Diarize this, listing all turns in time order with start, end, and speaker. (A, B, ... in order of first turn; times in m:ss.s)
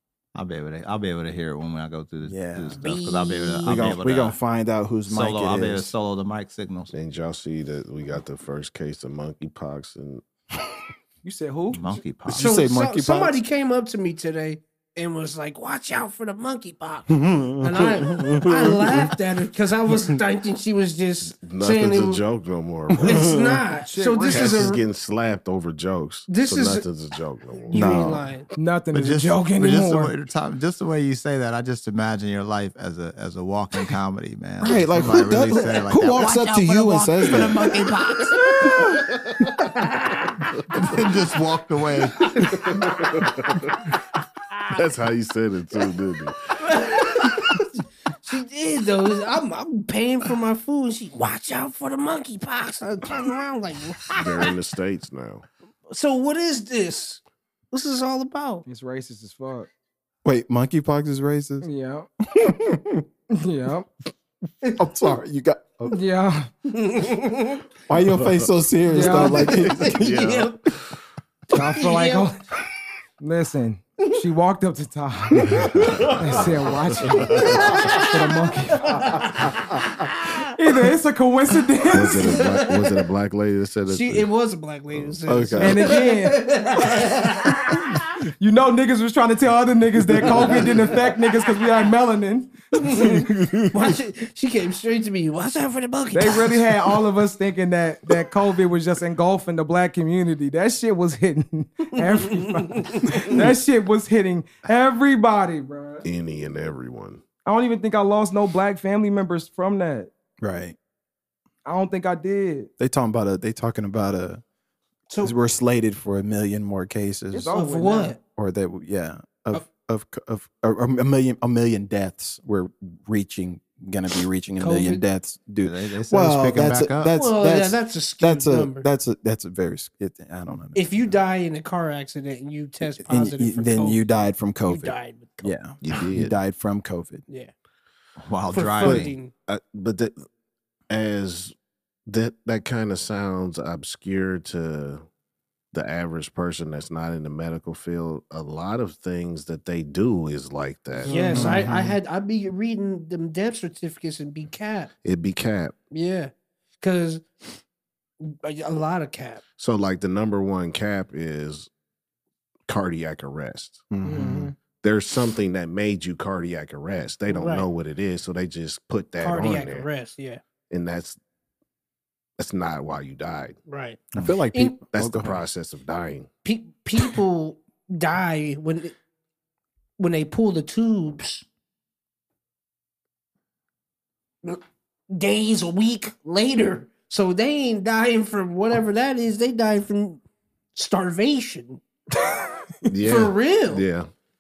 0:00.4-0:04.4 A
0:02.2-0:02.8 B
0:02.8-0:04.0 C
0:03.6-0:05.9 B
0:05.1-0:06.9 A
0:06.9-0:10.2 D
0:11.2-0:11.8 E
0:11.7-0:12.6 A
0:12.3-0:13.4 B
0:12.4-0:22.2 C
0:17.1-0:19.1 B
0:21.2-0:23.3 D
0:22.9-0:23.6 B
0:23.0-0:24.8 C
0:23.8-0:24.7 E
0:24.3-0:28.2 D
0:26.3-0:26.9 C
0:27.7-0:28.5 C
0:27.7-0:28.3 B
0:28.6-0:30.2 E
0:28.9-0:36.4 A
0:34.6-0:37.8 B
0:36.2-0:38.8 C
0:38.4-0:39.0 B
0:39.6-0:40.4 C
0:40.7-0:42.4 A
0:42.4-0:43.2 C
0:42.6-0:43.9 D
0:44.7-0:47.2 D
0:46.6-0:54.5 C
0:54.1-0:55.5 D
0:55.9-0:58.6 C
0:58.7-0:59.7 E
1:00.2-1:01.7 B
1:01.6-1:02.1 E
1:02.3-1:03.0 B
1:03.3-1:03.9 E
1:04.8-1:06.0 B
1:05.9-1:06.5 E
1:06.7-1:07.6 C
1:07.9-1:10.2 B
1:08.1-1:08.5 D
1:08.9-1:09.5 E
1:09.0-1:10.6 C
1:09.5-1:11.0 D
1:11.5-1:12.4 E
1:11.5-1:12.3 C
1:13.2-1:19.2 E
1:15.4-1:16.4 B
1:15.8-1:17.7 D
1:17.3-1:18.2 C
1:18.8-1:20.5 C
1:20.5-1:22.4 E
1:21.9-1:24.3 D
1:22.1-1:23.0 C
1:23.9-1:28.0 C
1:24.9-1:25.7 D
1:25.3-1:25.9 B
1:25.6-1:26.4 E
1:28.4-1:32.5 E
1:30.2-1:30.8 B
1:32.8-1:36.7 C
1:32.8-1:33.9 B
1:36.1-1:46.1 E
1:42.0-1:43.3 C
1:46.0-1:47.2 D
1:47.5-1:50.1 E
1:50.4-1:50.8 B
1:51.6-1:52.7 E
1:52.8-1:54.4 B
1:55.1-1:55.4 C
1:55.2-1:57.5 B
1:57.3-1:58.2 E
1:57.5-1:58.2 C
1:58.4-2:11.0 B
2:04.6-2:05.0 C
2:05.6-2:07.2 A
2:07.1-2:08.9 C
2:10.8-2:14.0 C
2:13.0-2:17.2 B
2:14.7-2:15.6 C
2:15.8-2:16.4 D
2:18.2-2:19.1 A
2:18.5-2:19.3 C
2:18.8-2:20.3 D
2:20.9-2:21.5 D
2:22.1-2:25.0 D
2:25.7-2:31.4 D
2:31.1-2:31.5 E
2:31.1-2:34.9 C
2:31.3-2:31.7 B
2:31.4-2:32.0 A
2:35.0-2:35.7 D
2:35.9-2:37.3 C
2:38.2-2:39.4 C
2:39.6-2:41.7 D
2:42.7-2:43.8 D
2:43.9-2:44.5 B
2:44.0-2:44.5 E
2:44.8-2:49.9 D
2:47.3-2:47.7 C
2:49.2-2:50.4 C
2:50.7-2:51.2 D
2:52.4-2:53.6 D
2:53.7-2:54.8 C
2:54.1-2:55.4 B
2:54.9-2:56.3 D
2:56.4-2:58.9 C
3:00.0-3:01.4 C
3:04.4-3:10.2 C
3:10.8-3:11.8 C
3:12.9-3:14.1 D
3:13.0-3:13.8 C